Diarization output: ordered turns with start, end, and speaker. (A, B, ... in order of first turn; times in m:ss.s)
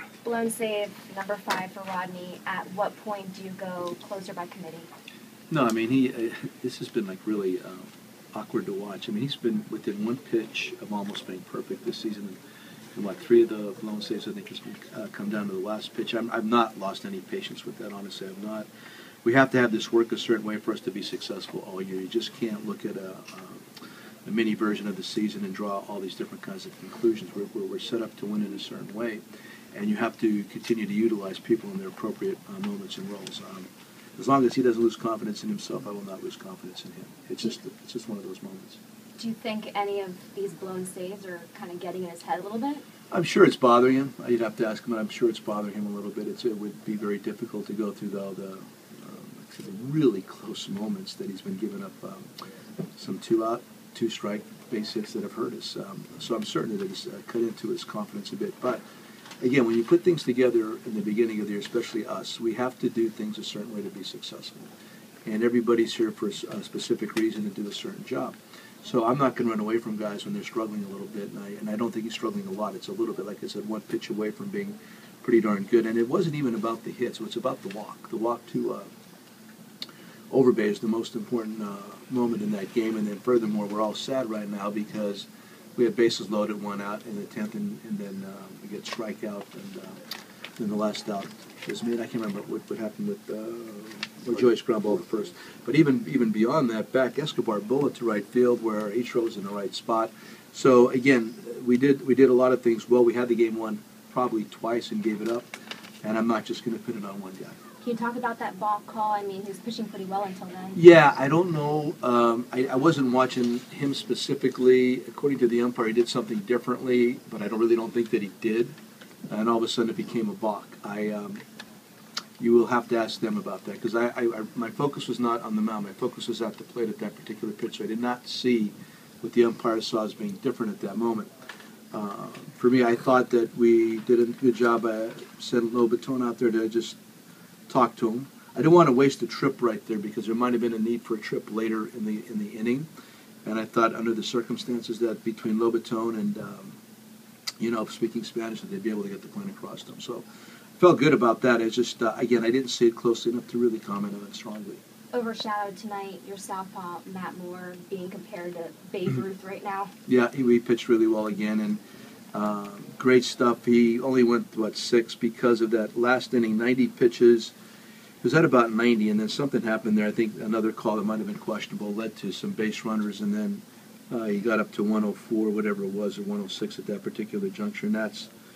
0:00.2-0:04.9 A
0:05.5-0:12.4 B
0:12.9-0:18.7 B
0:19.2-0:23.6 B
0:24.2-0:29.2 B
0:29.7-0:38.8 B
0:39.2-0:42.8 A
0:43.1-0:52.3 B
0:52.9-0:58.8 B
0:59.4-1:04.7 B
1:05.2-1:18.9 B
1:20.3-1:30.0 B
1:30.6-1:45.5 B
1:46.0-1:47.6 B
1:47.8-1:50.8 A
1:50.7-1:58.7 B
1:59.3-2:01.4 B
2:02.4-2:11.3 B
2:11.9-2:17.0 B
2:17.7-2:22.9 B
2:23.4-2:26.8 B
2:27.6-2:30.2 B
2:30.8-2:34.8 B
2:35.1-2:39.9 A
2:40.1-2:41.8 B
2:42.3-2:47.5 B
2:48.2-2:58.3 B